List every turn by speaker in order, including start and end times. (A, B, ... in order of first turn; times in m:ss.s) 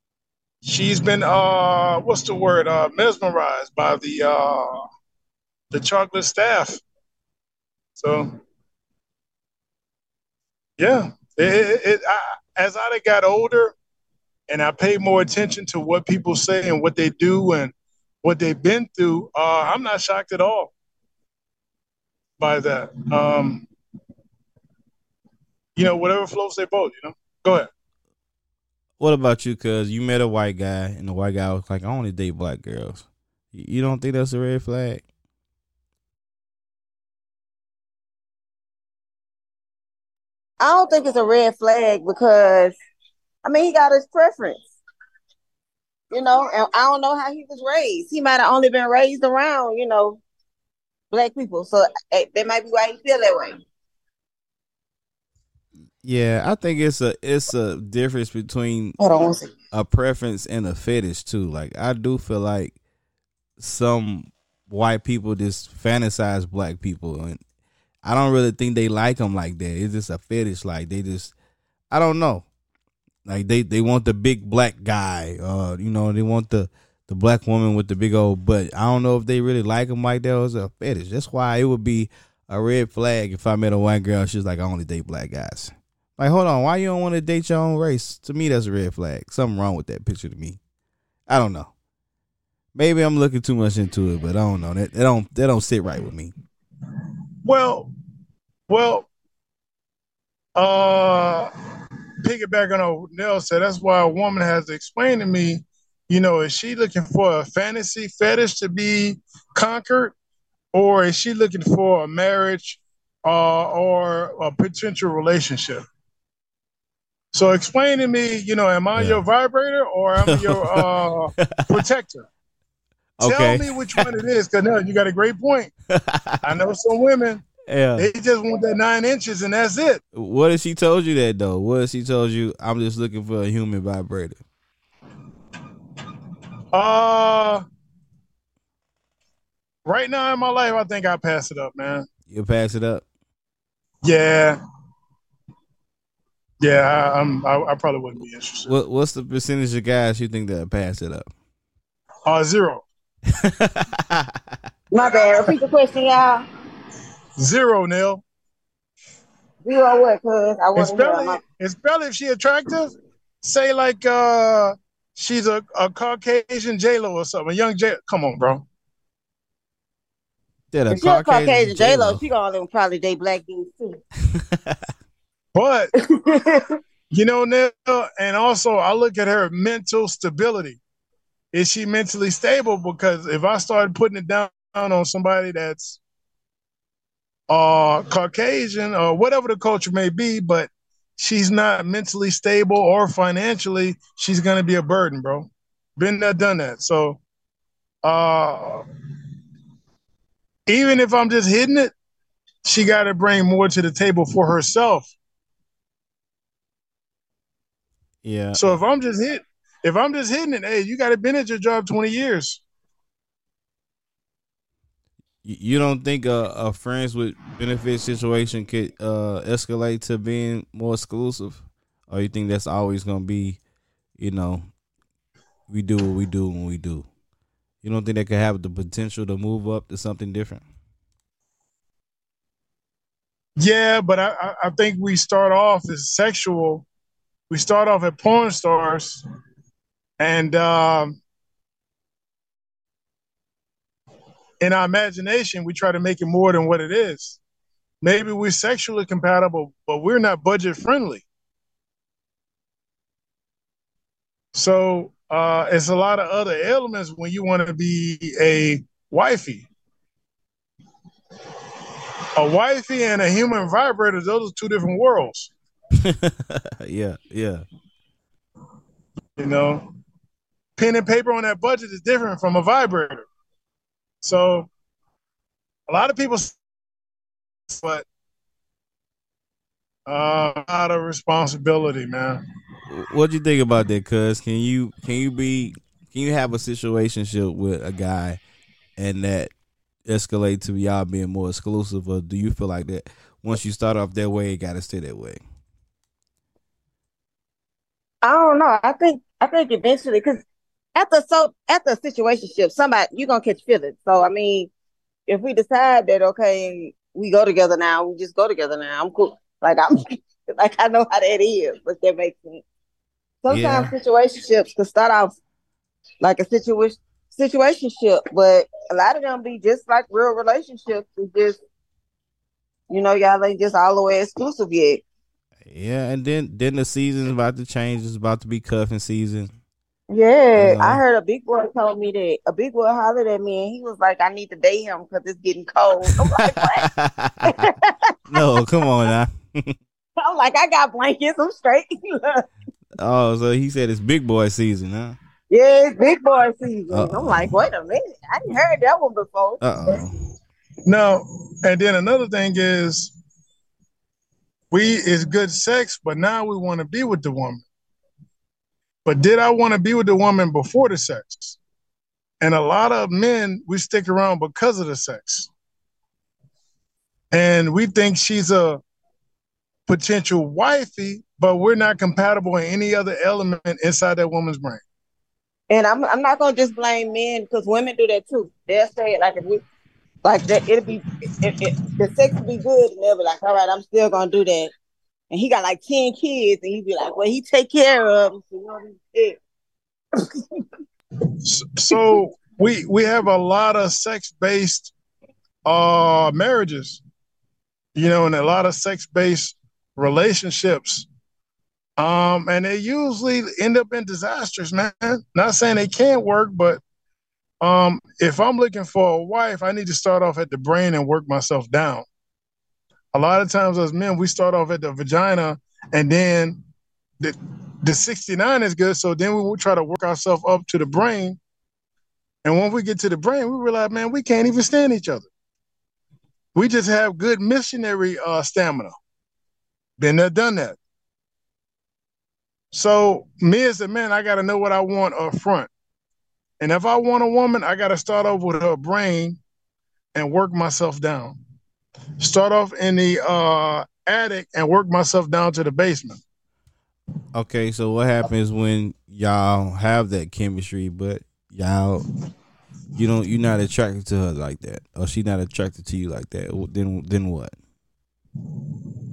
0:00.6-0:04.8 A
0:05.7-0:06.8 A
0:08.0-0:08.3 A
0:10.8-0:13.8 A
0:14.5-0:20.7 A
0:22.4-0:23.7 A
0:25.8-0:27.7 A
0:29.0-0:35.0 B
0:40.6-0:42.8 C
0:43.4-0:44.7 C
0:46.1-0:50.2 C
0:51.1-0:53.6 C
0:56.0-0:59.0 B
0:59.0-0:59.5 C
0:59.7-1:02.8 B
1:03.6-1:07.4 B
1:08.0-1:11.3 B
1:11.9-1:12.5 B
1:13.3-1:30.6 B
1:31.3-1:31.7 B
1:32.8-1:36.3 B
1:37.4-1:37.9 A
1:38.7-1:39.1 A
1:40.6-1:41.5 A
1:42.2-1:50.1 A
1:50.7-1:55.8 A
1:57.3-2:02.3 A
1:59.0-1:59.2 B
2:00.2-2:00.9 B
2:01.4-2:01.7 B
2:03.2-2:04.1 B
2:03.2-2:05.7 A
2:05.9-2:06.4 B
2:06.4-2:10.0 A
2:07.7-2:08.1 B
2:10.1-2:14.4 B
2:16.7-2:17.6 A
2:19.9-2:22.1 A
2:22.3-2:23.0 B
2:24.0-2:24.6 A
2:26.6-2:28.7 A
2:28.7-2:31.3 B
2:32.3-2:32.8 A
2:33.4-2:34.3 B
2:34.9-2:36.4 C
2:37.4-2:38.2 A
2:39.6-2:41.4 C
2:40.8-2:48.6 A
2:50.7-2:52.2 B
2:50.9-2:54.0 C
2:54.4-2:54.8 B
2:55.6-2:55.9 A
2:56.1-2:56.8 C
2:57.1-3:00.8 A
3:01.5-3:06.0 A
3:07.5-3:17.2 A
3:18.0-3:18.8 A
3:20.7-3:21.9 A
3:22.6-3:25.1 A
3:28.2-3:28.7 B
3:28.6-3:32.6 A
3:35.4-3:43.6 B
3:44.2-3:44.7 B
3:45.7-3:47.1 B
3:47.8-3:50.6 B
3:53.6-3:56.9 A
3:57.5-3:59.2 A
4:00.2-4:01.2 A
4:04.6-4:07.4 A
4:08.0-4:11.2 A
4:14.5-4:19.7 A
4:22.4-4:25.5 A
4:26.0-4:27.7 B
4:29.4-4:29.9 A
4:30.8-4:33.3 A
4:34.2-4:34.7 A
4:35.9-4:36.6 A
4:37.7-4:38.1 A
4:40.1-4:42.4 A
4:42.9-4:48.4 B
4:49.0-4:49.5 B
4:50.1-4:55.4 B
4:58.2-5:00.4 C
5:01.0-5:04.7 C
5:05.3-5:10.0 C
5:10.5-5:12.6 C
5:13.4-5:15.4 C
5:13.5-5:13.9 B
5:16.2-5:21.6 C
5:22.9-5:25.0 C
5:25.7-5:29.5 B
5:30.1-5:36.8 C
5:30.5-5:31.0 B
5:36.1-5:37.6 B
5:37.5-5:38.4 C
5:38.3-5:39.8 B
5:40.2-5:42.4 C
5:43.0-5:45.2 B
5:45.5-5:49.6 C
5:46.9-5:47.6 B
5:49.6-5:50.2 B
5:50.9-5:53.1 A
5:54.7-5:57.6 A
5:59.0-6:01.6 A
6:02.4-6:05.5 A
6:07.3-6:08.8 A
6:09.9-6:14.8 A
6:15.7-6:19.6 C
6:20.2-6:24.7 C
6:25.3-6:29.4 C
6:30.2-6:30.6 C
6:31.4-6:34.9 A
6:35.7-6:37.0 A
6:38.0-6:41.1 A
6:42.0-6:46.8 A
6:47.6-6:52.1 A
6:53.1-6:56.6 A
6:57.2-7:01.4 A
7:02.4-7:05.3 A
7:06.6-7:09.0 A
7:10.0-7:10.8 A
7:12.7-7:15.7 A
7:16.6-7:19.4 A
7:20.2-7:21.4 A
7:22.2-7:26.2 A
7:27.4-7:32.0 B
7:33.0-7:37.6 B